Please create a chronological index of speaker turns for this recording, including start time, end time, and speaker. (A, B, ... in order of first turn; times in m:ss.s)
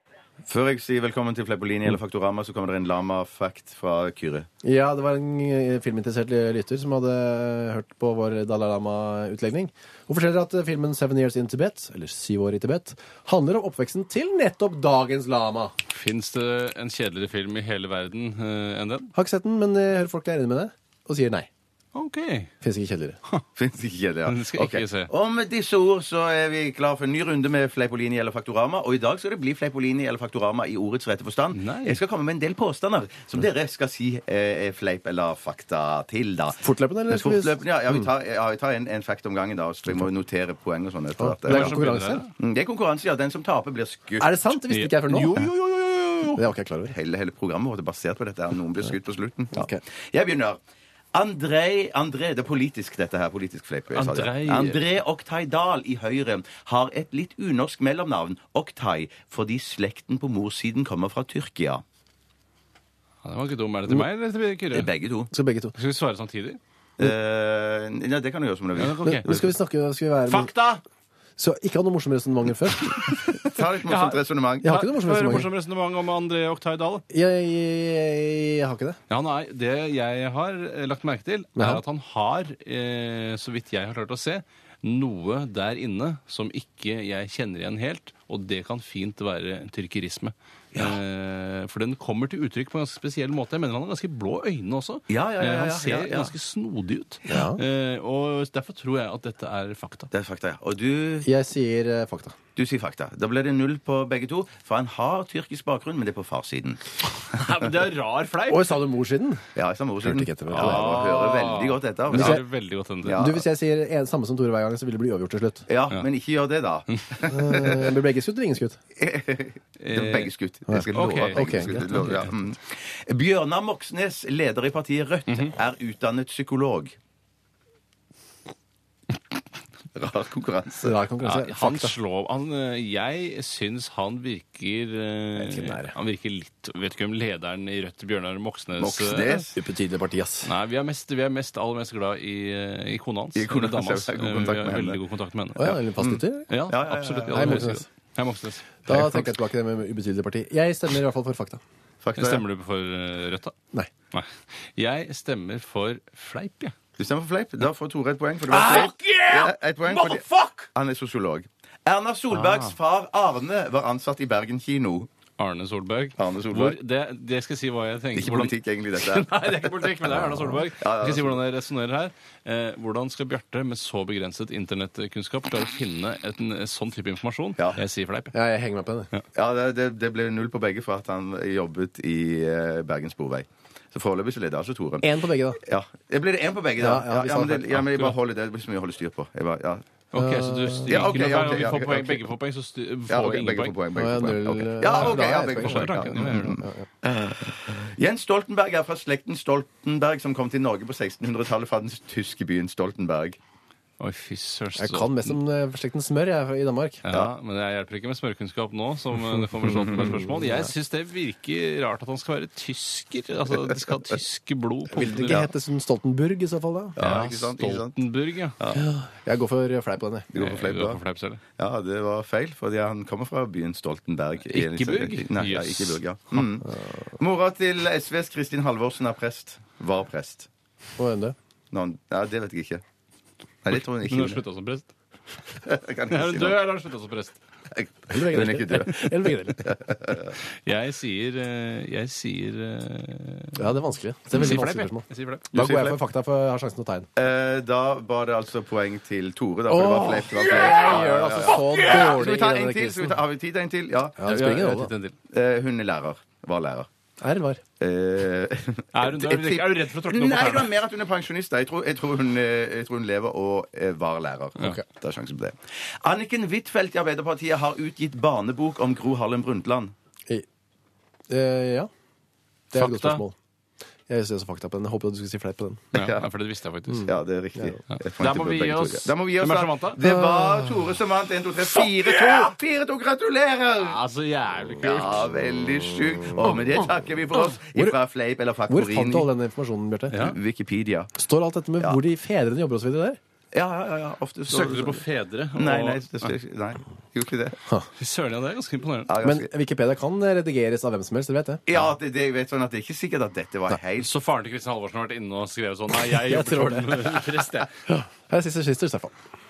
0:00.5-0:04.5 A
0:04.6-0:15.7 B
0:15.9-0:19.1 C
0:19.2-0:21.5 B
0:22.0-0:22.5 C
0:22.6-0:23.2 B
0:23.6-0:41.8 A
0:24.3-0:25.1 C
0:31.5-0:32.0 C
0:36.6-0:37.6 B
0:41.2-0:42.2 B
0:41.5-0:42.3 C
0:42.4-0:44.3 A
0:44.2-0:45.5 B
0:44.7-0:46.4 C
0:46.3-0:47.0 B
0:46.9-0:50.6 A
0:49.5-0:49.8 B
0:51.1-1:01.8 A
0:53.9-0:54.8 C
1:03.2-1:04.9 C
1:04.7-1:05.3 A
1:05.3-1:05.8 B
1:05.8-1:06.6 C
1:07.0-1:09.5 A
1:08.8-1:09.3 C
1:09.1-1:10.5 B
1:10.3-1:10.8 C
1:11.4-1:13.2 B
1:13.4-1:14.9 A
1:13.8-1:17.0 C
1:14.6-1:15.5 B
1:17.1-1:19.0 B
1:19.1-1:40.1 C
1:21.6-1:21.8 B
1:35.1-1:36.3 A
1:37.3-1:37.6 B
1:40.1-1:41.3 A
1:41.2-1:42.4 B
1:42.6-1:46.8 A
1:47.2-1:48.7 C
1:48.5-1:49.5 B
1:49.6-1:52.4 A
1:50.0-1:50.9 B
1:50.5-1:53.3 C
1:52.1-1:52.4 B
1:53.0-1:53.4 A
1:53.1-1:55.7 B
1:55.7-1:57.9 A
1:57.3-1:58.8 B
1:59.0-2:07.0 A
1:59.8-2:00.3 C
2:00.7-2:01.8 B
2:00.9-2:02.4 C
2:05.3-2:05.5 C
2:10.0-2:11.0 A
2:10.8-2:11.9 B
2:11.2-2:19.4 C
2:15.4-2:15.9 B
2:18.8-2:19.6 A
2:19.6-2:20.5 B
2:20.4-2:25.8 C
2:23.4-2:25.0 A
2:25.6-2:26.5 B
2:26.0-2:27.7 A
2:26.5-2:29.3 C
2:27.3-2:27.9 B
2:28.9-2:31.6 B
2:32.0-2:32.4 A
2:32.2-2:33.6 C
2:34.1-2:36.8 C
2:37.0-2:45.1 A
2:38.5-2:40.7 C
2:42.3-2:42.7 C
2:45.4-2:58.4 C
2:46.2-2:46.8 A
2:48.2-2:50.0 A
2:50.8-2:51.4 A
2:58.3-2:59.1 B
2:59.4-3:09.8 A
3:05.0-3:05.6 B
3:06.8-3:07.7 B
3:07.7-3:08.1 C
3:10.1-3:13.8 C
3:10.2-3:11.1 B
3:10.9-3:12.2 A
3:13.1-3:23.4 A
3:13.9-3:16.8 B
3:14.9-3:16.6 C
3:24.0-3:25.4 C
3:24.8-3:27.0 B
3:27.0-3:35.5 C
3:29.8-3:30.7 B
3:34.9-3:37.0 B
3:37.0-3:38.0 A
3:37.0-3:38.6 C
3:38.6-3:38.9 A
3:38.7-3:40.3 B
3:40.3-3:41.0 A
3:40.3-3:41.4 C
3:41.6-3:50.5 A
3:44.5-3:46.0 C
3:51.0-3:51.4 B
3:51.7-3:52.8 A
3:53.6-3:54.4 A
3:54.0-3:54.9 C
3:55.6-3:56.6 A
3:56.1-3:57.4 C
3:57.7-3:59.0 A
3:58.1-3:59.7 B
3:59.6-4:00.3 A
4:00.5-4:03.7 C
4:03.6-4:07.1 B
4:04.3-4:05.9 C
4:05.6-4:05.9 A
4:07.2-4:14.2 A
4:09.7-4:13.2 B
4:10.4-4:12.1 C
4:14.2-4:14.9 B
4:14.2-4:15.2 C
4:15.3-4:16.9 A
4:17.2-4:17.6 B
4:17.8-4:29.9 A
4:18.9-4:20.7 C
4:31.3-4:31.9 B
4:32.7-4:33.4 B
4:32.8-4:33.2 C
4:34.1-4:35.9 B
4:35.9-4:37.1 C
4:36.0-4:36.3 A
4:37.0-4:44.0 A
4:37.9-4:40.0 C
4:40.0-4:40.8 B
4:43.8-4:45.2 C
4:44.8-4:49.3 A
4:48.7-4:50.2 B
4:50.1-4:50.4 C
4:50.2-4:51.1 A
4:51.2-4:53.2 B
4:53.5-4:55.0 A
4:54.5-4:56.3 C
4:55.6-4:57.6 A
4:58.0-4:59.1 C
4:59.1-4:59.5 A
4:59.2-5:01.6 B
5:01.7-5:04.1 A
5:04.0-5:07.7 C
5:06.1-5:07.2 B
5:07.9-5:09.1 B